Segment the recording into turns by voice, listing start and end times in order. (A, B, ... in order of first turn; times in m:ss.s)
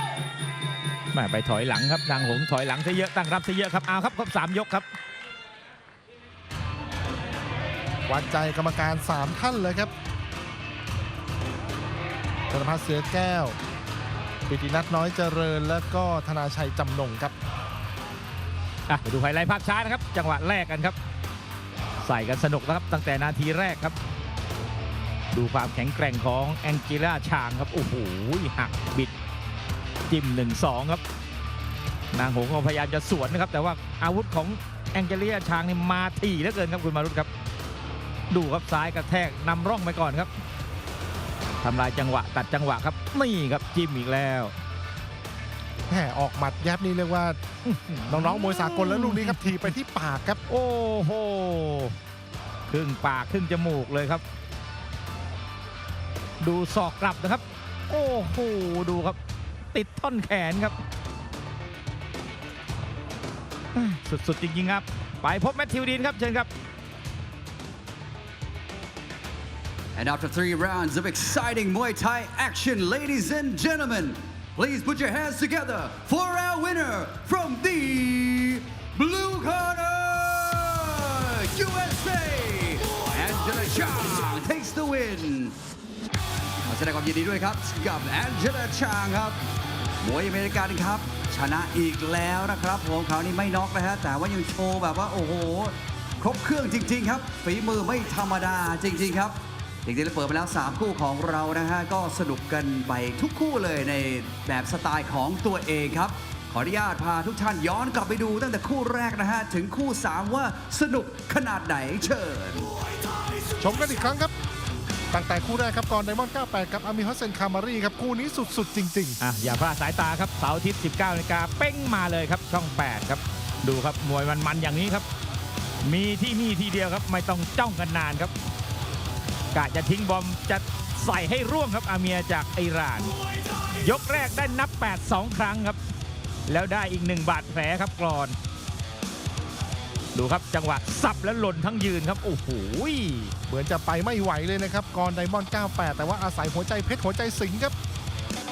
0:01.1-0:04.8 A
0:08.1-0:09.9 B
0:12.5-0:13.6 B
0:14.5-0:17.4 B
0:18.9-0:21.0 A
0:22.0-0:24.0 A
0:25.3-0:29.1 A
0:30.1-0:31.0 A
0:32.1-0:37.3 A
0:38.3-0:40.3 A
0:41.6-0:44.5 A
0:45.9-0:47.4 B
0:47.6-0:49.7 A
0:48.1-0:50.4 B
0:50.5-0:52.0 A
0:52.7-0:54.2 A
0:56.4-0:59.2 A
0:59.7-1:00.8 A
1:03.7-1:06.5 A
1:09.9-1:25.6 C
1:26.7-1:29.4 C
1:30.0-1:52.7 C
1:53.6-1:54.3 B
1:55.1-1:59.2 B
1:59.2-2:05.0 A
2:05.8-2:08.3 A
2:09.5-2:13.1 A
2:13.8-2:15.8 A
2:16.5-2:18.4 A
2:20.1-2:23.3 A
2:23.5-2:27.7 B